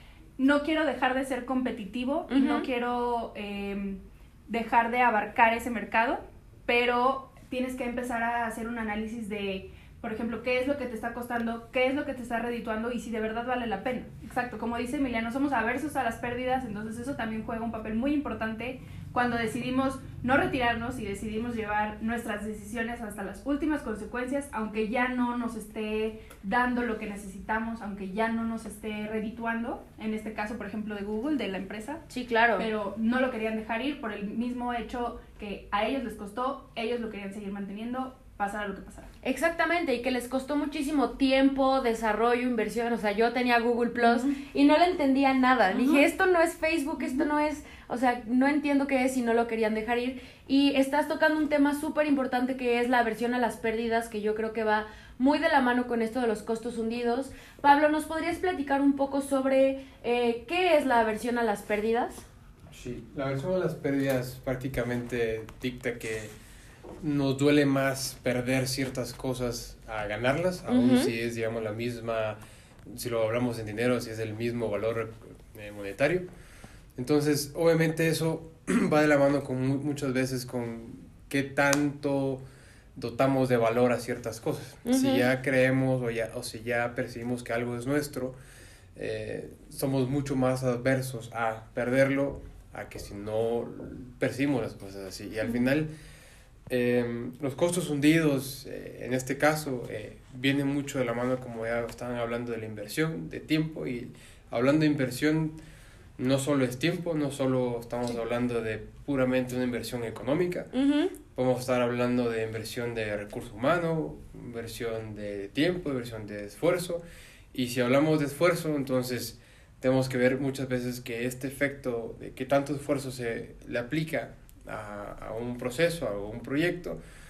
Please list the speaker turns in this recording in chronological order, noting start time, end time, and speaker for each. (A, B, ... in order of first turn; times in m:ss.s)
0:00.4-0:32.0 A
0:02.3-0:02.6 B
0:32.1-0:32.7 B
0:32.6-0:39.1 A
0:39.2-1:02.2 B
0:44.0-0:44.4 A
0:45.7-0:46.0 A
0:47.0-0:47.3 A
1:02.7-1:06.3 C
1:07.0-1:16.3 C
1:10.7-1:11.1 B
1:17.0-1:22.4 C
1:23.0-1:28.4 C
1:24.9-1:25.2 B
1:29.0-1:35.9 C
1:36.7-1:45.6 C
1:46.2-1:50.7 C
1:50.7-1:51.1 B
1:51.4-1:57.0 C
1:57.5-2:07.0 C